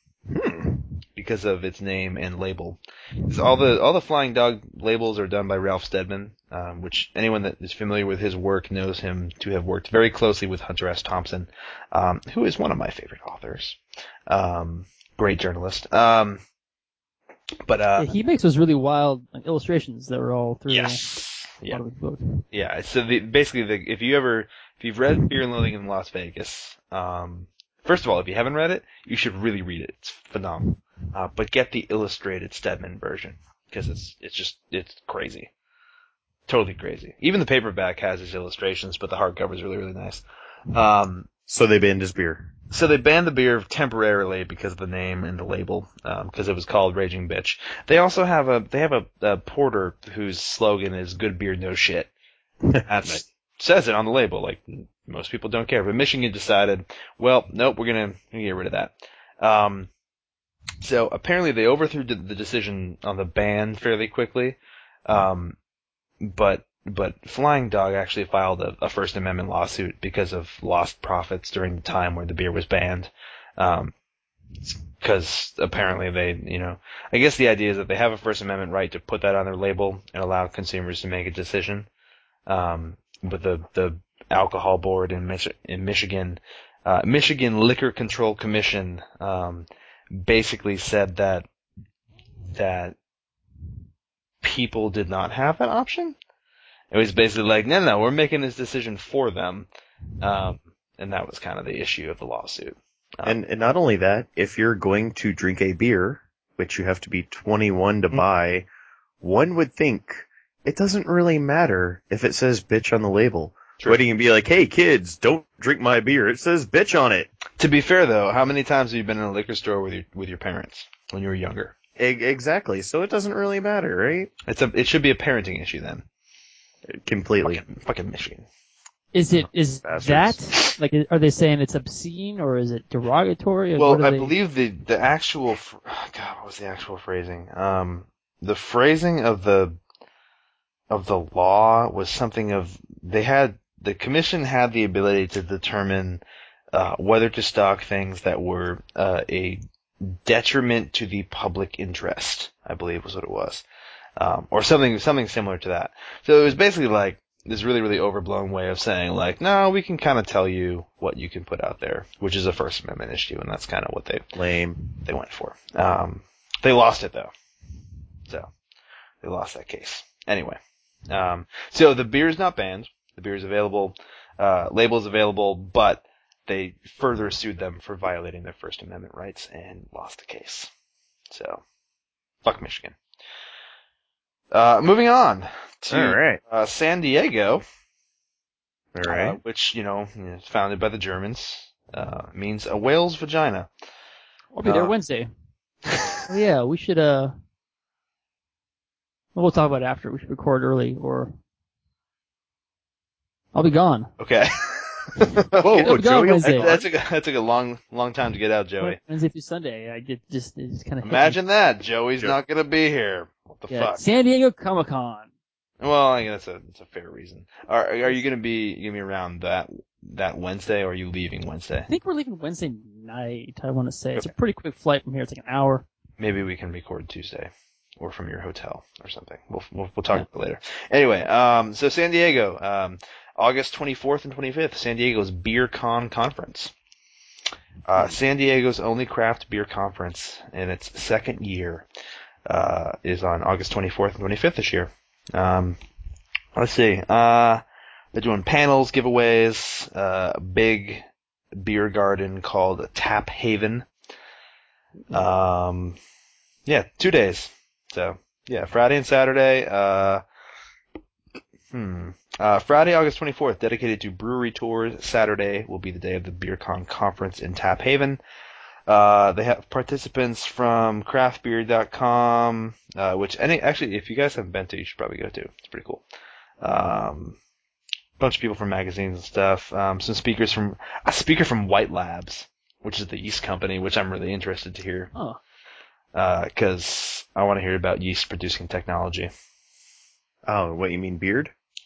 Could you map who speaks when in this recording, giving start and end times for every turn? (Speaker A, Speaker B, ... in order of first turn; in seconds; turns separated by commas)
Speaker A: 0.3-0.9, Speaker B: 1.1-16.4, Speaker B: 17.6-18.1, Speaker C: 18.0-21.0, Speaker B: 20.7-21.8, Speaker C: 21.7-22.4, Speaker B: 22.5-35.5, Speaker B: 36.5-41.3, Speaker A: 41.5-42.5, Speaker B: 42.7-52.1, Speaker A: 52.6-53.2, Speaker B: 52.8-59.9, Speaker B: 60.8-65.5, Speaker B: 66.2-73.9, Speaker B: 74.6-81.9, Speaker B: 82.5-91.5, Speaker B: 92.5-92.9, Speaker B: 94.4-96.1, Speaker B: 96.9-99.7, Speaker B: 100.2-103.4, Speaker A: 103.2-108.7, Speaker A: 109.2-117.3, Speaker B: 117.6-121.7, Speaker A: 122.0-124.3, Speaker B: 124.5-126.0, Speaker A: 126.9-127.6, Speaker B: 127.4-128.4, Speaker C: 129.1-134.3, Speaker A: 129.3-130.4, Speaker B: 133.8-139.8, Speaker B: 140.9-146.2, Speaker B: 146.7-153.6, Speaker B: 154.2-164.2, Speaker A: 164.3-164.8, Speaker B: 164.9-167.3, Speaker B: 169.2-180.7, Speaker B: 181.3-181.6, Speaker B: 182.4-182.9, Speaker B: 184.5-187.6, Speaker A: 185.9-186.4, Speaker A: 188.9-189.4, Speaker B: 189.0-193.7, Speaker C: 194.5-195.3, Speaker C: 196.3-197.3, Speaker C: 199.3-201.3, Speaker C: 203.5-204.1, Speaker B: 204.2-209.0, Speaker A: 205.6-206.8, Speaker C: 205.8-206.8, Speaker C: 208.8-211.4, Speaker B: 211.0-214.0, Speaker C: 213.7-215.3, Speaker B: 215.8-221.9, Speaker C: 221.9-225.8, Speaker B: 226.2-236.7, Speaker B: 237.8-241.8, Speaker B: 242.5-245.8, Speaker B: 246.5-247.6, Speaker B: 248.1-253.9, Speaker B: 255.1-256.0, Speaker B: 256.6-260.2, Speaker B: 261.7-268.2, Speaker B: 268.9-276.0, Speaker B: 276.6-277.4, Speaker B: 278.2-285.1, Speaker B: 286.1-289.3, Speaker A: 290.4-291.5